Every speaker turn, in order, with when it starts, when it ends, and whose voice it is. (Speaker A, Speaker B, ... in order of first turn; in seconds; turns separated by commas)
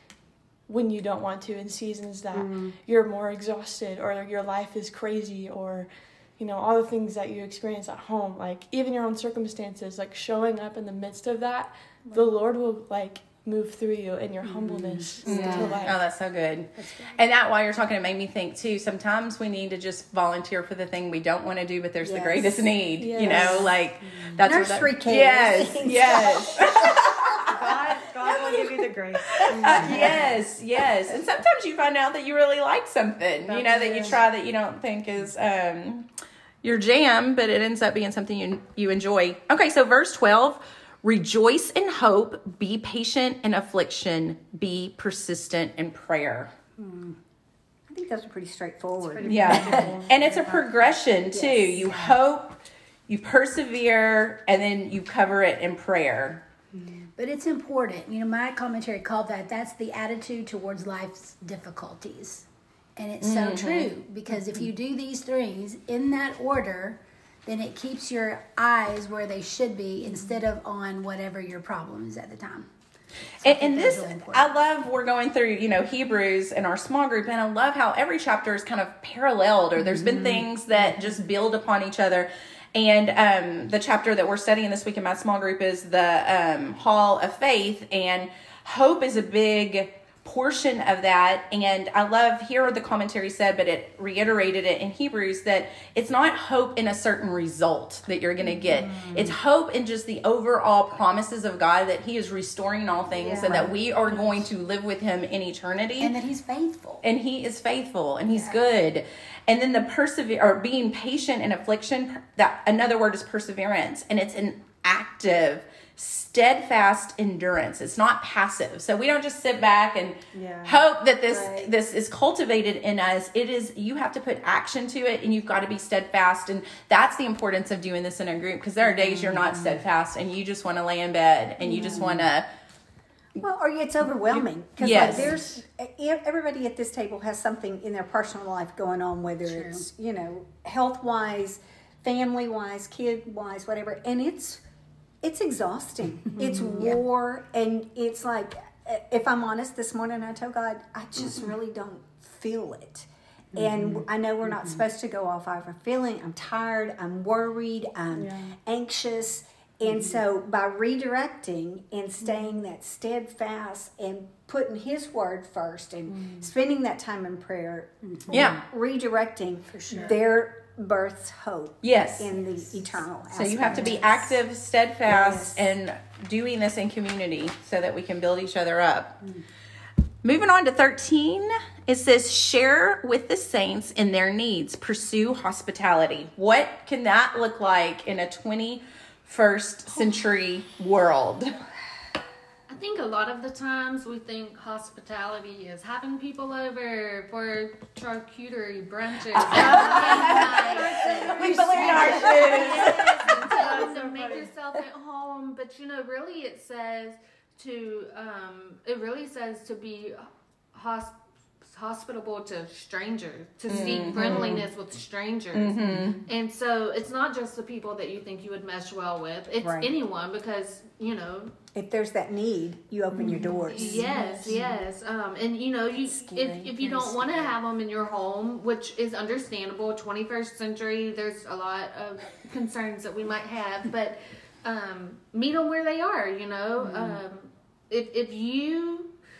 Speaker A: 0.7-16.0, Speaker B: 14.4-15.8, Speaker C: 15.2-27.6, Speaker D: 15.3-15.7, Speaker B: 16.8-17.2, Speaker D: 22.0-22.7, Speaker A: 23.0-23.7, Speaker D: 23.3-23.6, Speaker D: 24.4-27.0, Speaker E: 27.4-30.4, Speaker C: 28.2-28.7, Speaker C: 29.3-36.1, Speaker D: 29.6-30.2, Speaker E: 33.5-34.2, Speaker D: 33.7-34.1, Speaker C: 36.6-46.5, Speaker D: 47.9-50.0, Speaker E: 49.1-51.0, Speaker C: 49.2-56.4, Speaker D: 51.3-52.1, Speaker B: 57.2-62.5, Speaker B: 63.0-72.7, Speaker C: 63.2-63.9, Speaker B: 73.4-74.5, Speaker C: 73.4-106.1, Speaker B: 80.0-80.4, Speaker B: 98.7-99.3, Speaker E: 103.1-103.7, Speaker B: 106.0-107.0, Speaker C: 107.0-132.5, Speaker E: 120.3-120.8, Speaker B: 121.3-121.7, Speaker B: 131.7-132.2, Speaker D: 131.7-132.1, Speaker D: 133.4-144.6, Speaker C: 134.8-135.3, Speaker A: 135.0-135.4, Speaker B: 139.4-139.8, Speaker D: 145.2-174.4, Speaker B: 146.4-147.0, Speaker B: 153.5-154.0, Speaker E: 158.1-158.5, Speaker B: 159.8-160.2, Speaker B: 168.0-168.4, Speaker C: 168.3-168.6, Speaker B: 169.7-170.2, Speaker C: 171.8-172.3, Speaker C: 173.3-179.1, Speaker D: 175.1-175.6, Speaker C: 180.2-191.5, Speaker F: 192.7-221.5, Speaker C: 199.3-203.2, Speaker E: 199.6-204.5, Speaker B: 201.4-202.6, Speaker D: 201.7-202.5, Speaker C: 213.7-214.3, Speaker D: 214.1-214.7, Speaker C: 215.5-216.2, Speaker D: 219.6-219.9, Speaker D: 221.7-224.6, Speaker A: 223.2-224.6, Speaker B: 223.2-224.2, Speaker F: 223.7-239.1, Speaker D: 226.0-227.5